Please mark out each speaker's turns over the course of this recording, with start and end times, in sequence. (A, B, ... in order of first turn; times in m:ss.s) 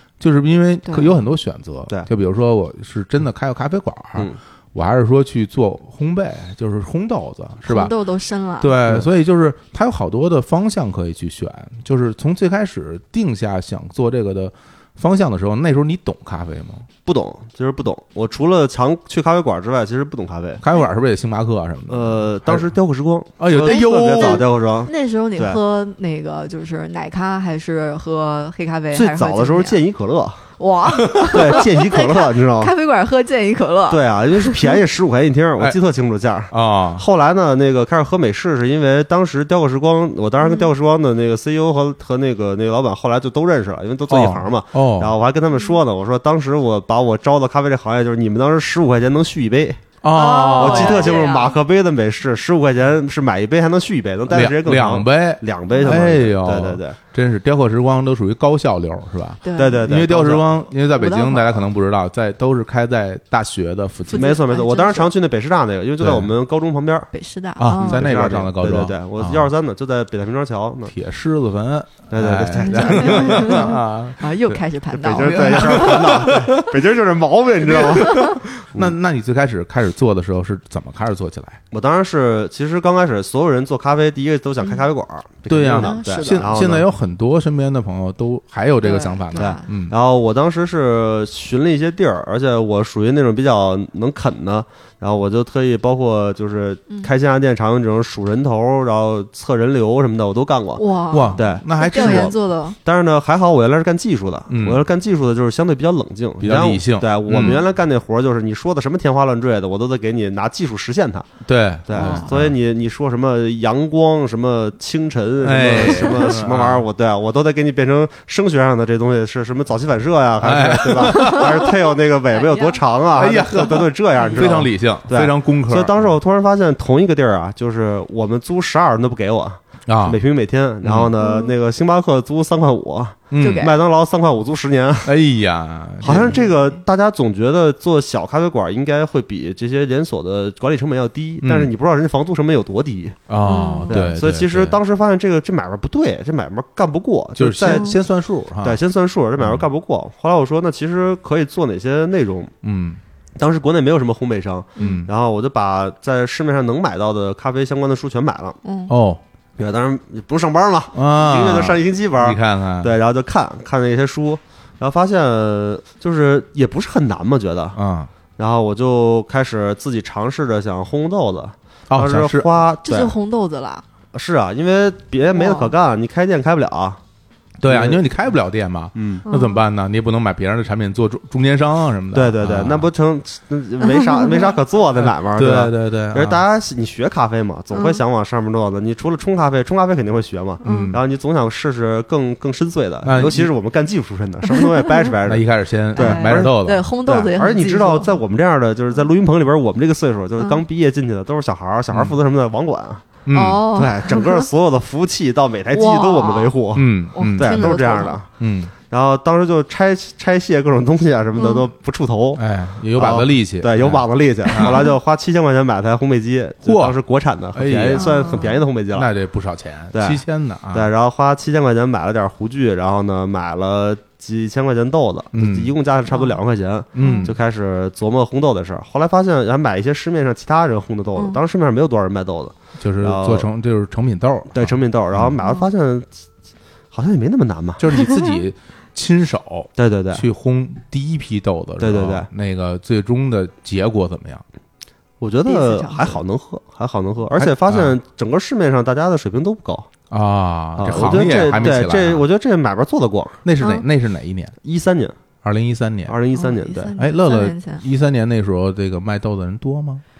0:00.2-0:07.9 A
0:00.8-0:01.1 B
0:07.6-0:08.8 B
0:08.6-0:16.9 A
0:17.0-0:20.6 C
0:20.6-0:22.7 A
0:21.9-0:25.6 C
0:23.4-0:24.4 A
0:23.6-0:29.8 B
0:28.9-0:30.4 C
0:30.6-0:34.7 B
0:31.1-0:31.4 A
0:31.2-0:32.7 C
0:33.9-0:49.8 C
0:36.5-0:37.0 A
0:40.4-0:40.7 B
0:44.1-0:45.1 A
0:50.0-0:51.2 A
0:50.1-0:51.6 B
0:50.5-0:57.0 C
0:54.3-1:04.4 A
0:55.7-0:56.0 B
0:59.4-1:00.0 B
0:59.6-1:00.4 C
1:00.9-1:01.6 B
1:04.1-1:05.1 B
1:04.1-1:07.1 C
1:06.0-1:06.3 A
1:07.1-1:08.0 B
1:07.6-1:09.5 A
1:07.7-1:10.9 C
1:10.9-1:14.6 A
1:12.1-1:13.7 C
1:12.6-1:16.2 B
1:14.9-1:18.9 C
1:15.1-1:16.7 A
1:17.6-1:21.6 A
1:21.7-1:26.9 C
1:25.5-1:29.9 A
1:25.7-1:26.7 B
1:28.8-1:29.6 B
1:29.4-1:51.3 C
1:40.8-1:42.8 B
1:41.1-1:42.3 A
1:44.5-1:44.8 A
1:46.4-1:47.6 A
1:47.3-1:47.6 B
1:51.4-1:52.6 A
1:51.8-2:15.1 C
1:51.9-1:52.3 B
1:55.4-1:56.8 A
2:00.4-2:01.6 A
2:01.1-2:02.8 B
2:03.1-2:06.1 A
2:04.2-2:04.5 B
2:09.9-2:10.2 A
2:10.8-2:11.1 A
2:11.2-2:11.5 B
2:13.3-2:13.7 A
2:13.4-2:13.8 B
2:15.0-2:16.5 A
2:16.0-2:23.2 C
2:21.4-2:21.7 A
2:23.3-2:24.8 A
2:23.4-2:24.0 B
2:23.9-2:27.9 C
2:27.4-2:28.8 A
2:27.6-2:28.0 B
2:28.6-2:32.5 C
2:29.4-2:29.6 A
2:32.6-2:33.0 A
2:33.4-2:38.6 C
2:34.8-2:35.0 B
2:34.8-2:35.1 A
2:38.6-2:38.9 B
2:38.9-2:39.2 A
2:39.6-2:47.8 C
2:40.9-2:42.9 A
2:47.7-2:48.1 A
2:48.4-2:53.1 C
2:51.9-2:52.6 A
2:52.8-2:53.8 B
2:54.1-2:57.0 C
2:55.3-2:55.7 B
2:57.6-3:02.9 A
2:57.6-2:58.0 C
2:58.9-2:59.2 C
2:59.2-2:59.6 B
3:02.1-3:23.1 C
3:04.2-3:04.5 B
3:05.0-3:06.4 A
3:07.7-3:08.0 B
3:10.6-3:10.9 B
3:10.6-3:11.0 A
3:13.0-3:13.5 A
3:14.5-3:14.9 B
3:15.2-3:16.9 A
3:16.0-3:18.2 B
3:21.9-3:22.2 A
3:23.2-3:23.7 A
3:23.3-3:24.5 B
3:23.7-3:28.3 C
3:25.7-3:26.6 B
3:26.7-3:27.8 A
3:27.1-3:28.2 B
3:28.4-3:28.7 A
3:28.9-3:32.4 C
3:31.4-3:31.6 B
3:32.4-3:34.9 A
3:32.9-3:39.1 C
3:36.6-3:37.0 A
3:37.5-3:40.9 A
3:37.9-3:38.6 B
3:39.9-3:53.5 C
3:45.3-3:45.7 A
3:46.1-3:46.4 B
3:46.9-3:47.4 A
3:47.0-3:47.3 B
3:52.8-3:55.4 A
3:54.5-3:56.1 C
3:55.4-3:55.7 B
3:56.9-3:57.8 C
3:57.8-4:04.4 A
3:59.8-4:00.2 C
4:01.8-4:02.3 C
4:05.2-4:09.9 C
4:05.4-4:06.2 B
4:07.4-4:07.9 A
4:10.1-4:12.2 A
4:10.8-4:13.4 C
4:10.9-4:11.7 B
4:13.4-4:14.5 A
4:13.6-4:13.8 B
4:14.6-4:15.1 C
4:15.4-4:16.1 A
4:16.1-4:16.9 C
4:16.3-4:17.8 B
4:17.0-4:20.0 A